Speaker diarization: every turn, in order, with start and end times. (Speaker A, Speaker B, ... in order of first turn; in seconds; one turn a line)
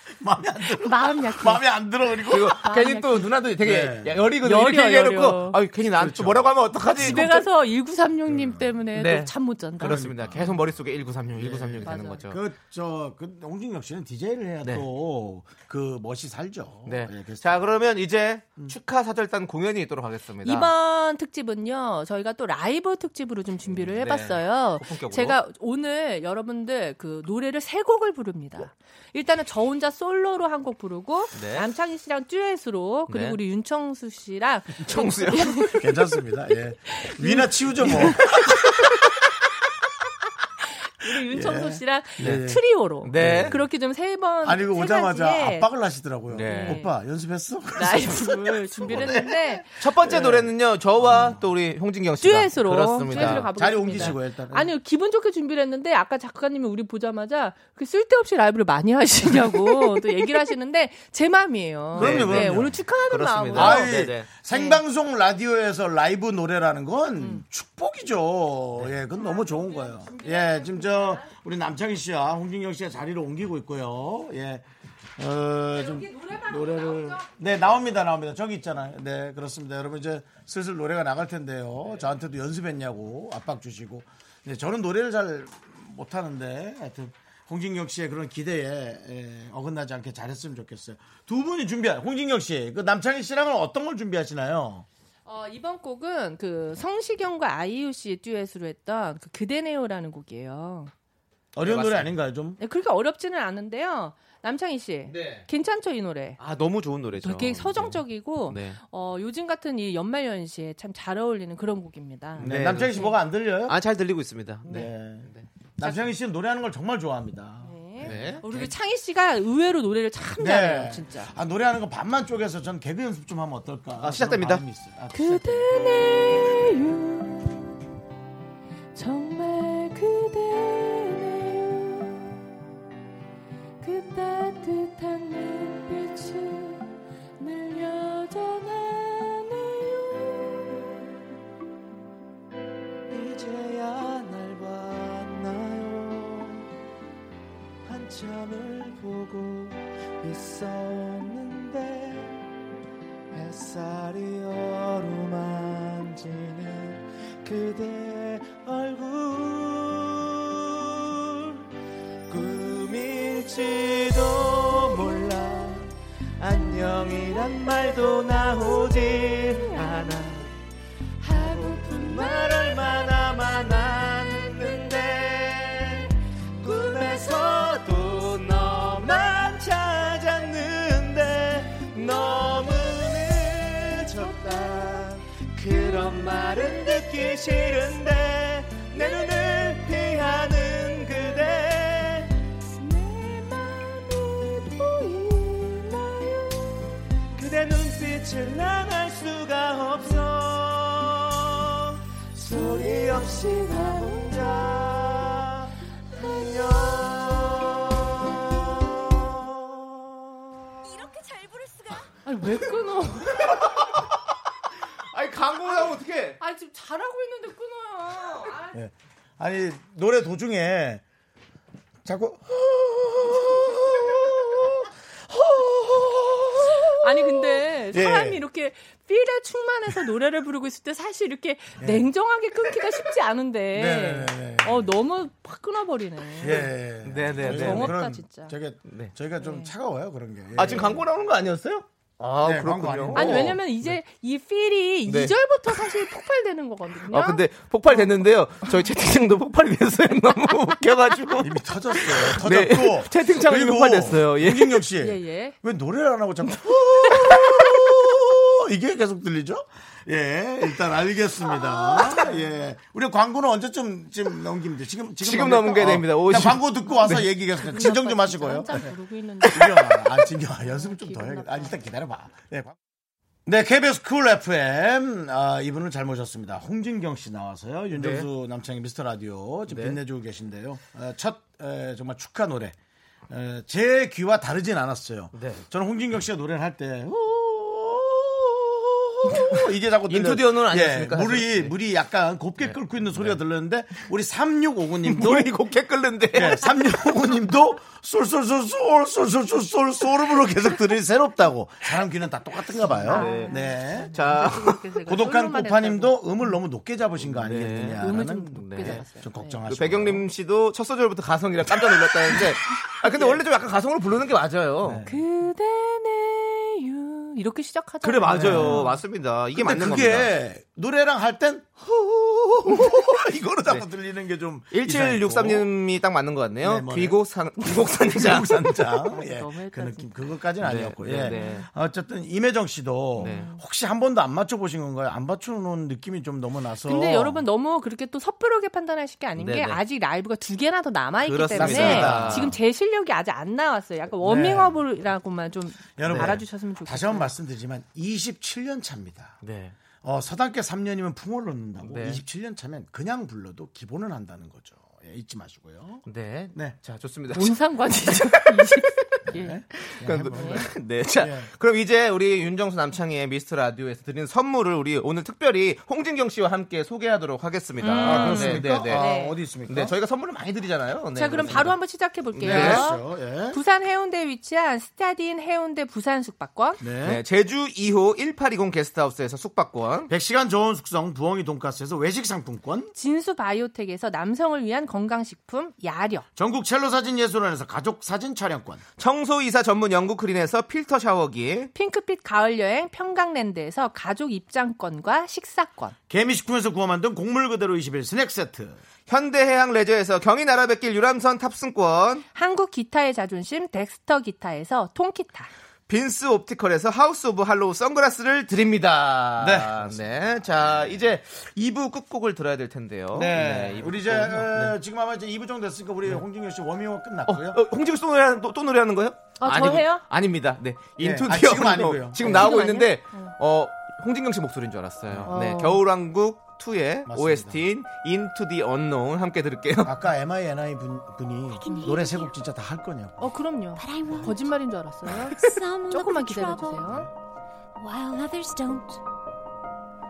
Speaker A: 0.1-2.7
Speaker B: 0.8-1.6
Speaker C: 2.3-7.5
Speaker B: 2.5-3.3
Speaker A: 3.6-4.2
Speaker B: 4.4-5.6
Speaker A: 6.0-7.4
Speaker B: 7.0-10.0
Speaker A: 8.3-8.7
Speaker C: 8.9-12.4
Speaker A: 9.8-10.6
Speaker A: 11.3-17.7
Speaker B: 11.8-12.2
Speaker C: 16.9-20.7
Speaker B: 20.4-35.9
Speaker C: 23.8-25.4
Speaker C: 31.3-31.7
Speaker C: 33.1-33.4
Speaker C: 34.8-35.7
Speaker A: 35.8-38.8
Speaker B: 36.9-39.1
Speaker B: 41.0-45.7
Speaker A: 41.1-43.7
Speaker C: 43.0-43.6
Speaker A: 44.4-51.4
Speaker C: 46.3-46.8
Speaker B: 46.4-46.9
Speaker B: 47.8-49.6
Speaker C: 49.8-54.1
Speaker B: 52.2-64.8
Speaker A: 53.1-54.7
Speaker A: 61.9-62.8
Speaker C: 62.0-64.3
Speaker A: 63.5-94.8
Speaker B: 67.2-67.4
Speaker B: 69.1-71.3
Speaker B: 75.7-77.4
Speaker B: 95.2-100.9
Speaker A: 101.5-102.6
Speaker C: 101.6-102.1
Speaker B: 102.6-106.4
Speaker C: 105.1-105.4
Speaker C: 106.4-108.8
Speaker B: 107.2-113.1
Speaker A: 112.4-113.8
Speaker C: 112.4-113.1
Speaker C: 113.7-115.5
Speaker A: 114.7-118.7
Speaker B: 115.8-116.1
Speaker B: 117.6-121.3
Speaker C: 118.0-118.4
Speaker A: 120.4-125.7
Speaker C: 124.0-124.6
Speaker B: 125.1-127.8
Speaker B: 128.9-132.4
Speaker B: 133.8-140.9
Speaker D: 143.1-146.6
Speaker D: 147.9-152.2
Speaker D: 153.3-159.9
Speaker D: 162.4-165.8
Speaker D: 166.5-170.3
Speaker C: 168.8-169.8
Speaker B: 169.5-170.1
Speaker B: 171.2-173.1
Speaker D: 171.6-175.7
Speaker D: 176.6-185.0
Speaker C: 180.5-180.8
Speaker C: 182.2-184.1
Speaker B: 184.5-185.0
Speaker C: 185.6-186.0
Speaker D: 185.8-191.8
Speaker B: 185.9-186.3
Speaker C: 186.9-188.1
Speaker C: 189.0-191.4
Speaker B: 192.7-196.8
Speaker D: 197.4-201.2
Speaker D: 202.4-205.4
Speaker B: 202.4-204.7
Speaker B: 206.1-207.1
Speaker E: 211.1-211.8
Speaker B: 212.2-213.5
Speaker C: 213.3-214.2
Speaker C: 215.0-216.4
Speaker B: 215.6-218.8
Speaker A: 218.7-221.0
Speaker A: 222.0-228.4
Speaker B: 227.0-236.7
Speaker A: 231.8-232.1
Speaker A: 233.7-234.9
Speaker A: 236.3-241.1
Speaker C: 237.0-237.9
Speaker B: 237.4-238.5
Speaker B: 239.4-239.7
Speaker C: 240.6-243.6
Speaker A: 242.4-243.9
Speaker B: 243.1-248.7
Speaker C: 245.1-245.9
Speaker C: 247.1-254.8
Speaker A: 251.4-268.9
Speaker B: 255.0-255.6
Speaker B: 261.5-262.4
Speaker C: 265.2-267.2
Speaker B: 267.0-271.8
Speaker C: 269.4-269.8
Speaker A: 269.5-272.8
Speaker A: 273.4-282.8
Speaker C: 277.9-278.3
Speaker C: 279.7-280.0
Speaker A: 283.3-295.5
Speaker C: 285.3-285.6
Speaker C: 290.1-291.7
Speaker C: 292.6-293.4
Speaker C: 295.0-296.7
Speaker A: 296.3-310.2
Speaker B: 302.8-306.5
Speaker C: 303.1-304.8
Speaker C: 307.2-309.0
Speaker B: 308.0-309.6
Speaker C: 309.7-315.0
Speaker A: 311.9-313.4
Speaker A: 314.8-315.3
Speaker B: 315.1-319.0
Speaker C: 318.0-320.3
Speaker A: 318.3-318.9
Speaker A: 319.5-325.7
Speaker C: 322.9-323.8
Speaker C: 324.7-328.9
Speaker A: 326.6-337.4
Speaker B: 329.0-330.1
Speaker C: 330.6-331.6
Speaker B: 331.2-331.6
Speaker B: 333.2-333.6
Speaker C: 333.2-333.5
Speaker B: 336.8-347.3
Speaker C: 339.4-339.8
Speaker C: 341.2-342.6
Speaker A: 341.5-342.6
Speaker A: 344.2-344.8
Speaker A: 346.0-349.4
Speaker C: 346.1-346.4
Speaker C: 349.4-349.7
Speaker A: 350.0-356.8
Speaker C: 351.8-352.2
Speaker C: 356.1-358.7
Speaker B: 357.3-359.6
Speaker A: 359.3-361.5
Speaker C: 360.0-369.1
Speaker B: 360.3-360.6
Speaker B: 367.8-369.3
Speaker A: 367.9-369.9
Speaker C: 369.7-371.8
Speaker B: 371.1-376.8
Speaker C: 372.3-372.8
Speaker A: 372.4-373.6
Speaker A: 376.8-377.2
Speaker C: 377.0-380.1
Speaker A: 380.1-382.9
Speaker B: 382.9-386.2
Speaker A: 386.4-388.8
Speaker C: 389.0-391.7
Speaker B: 391.7-395.9
Speaker A: 396.1-398.8
Speaker C: 399.1-402.2
Speaker B: 402.3-405.5
Speaker C: 405.9-414.8
Speaker A: 409.4-410.1
Speaker A: 410.6-410.9
Speaker A: 413.1-417.6
Speaker C: 417.3-430.0
Speaker B: 419.4-420.0
Speaker A: 421.0-422.6
Speaker B: 422.2-423.3
Speaker A: 425.1-425.3
Speaker B: 425.3-425.8
Speaker A: 427.1-427.6
Speaker A: 429.8-433.3
Speaker E: 431.6-432.3
Speaker B: 433.2-437.1
Speaker E: 433.8-434.5
Speaker E: 435.1-436.9
Speaker E: 437.8-439.0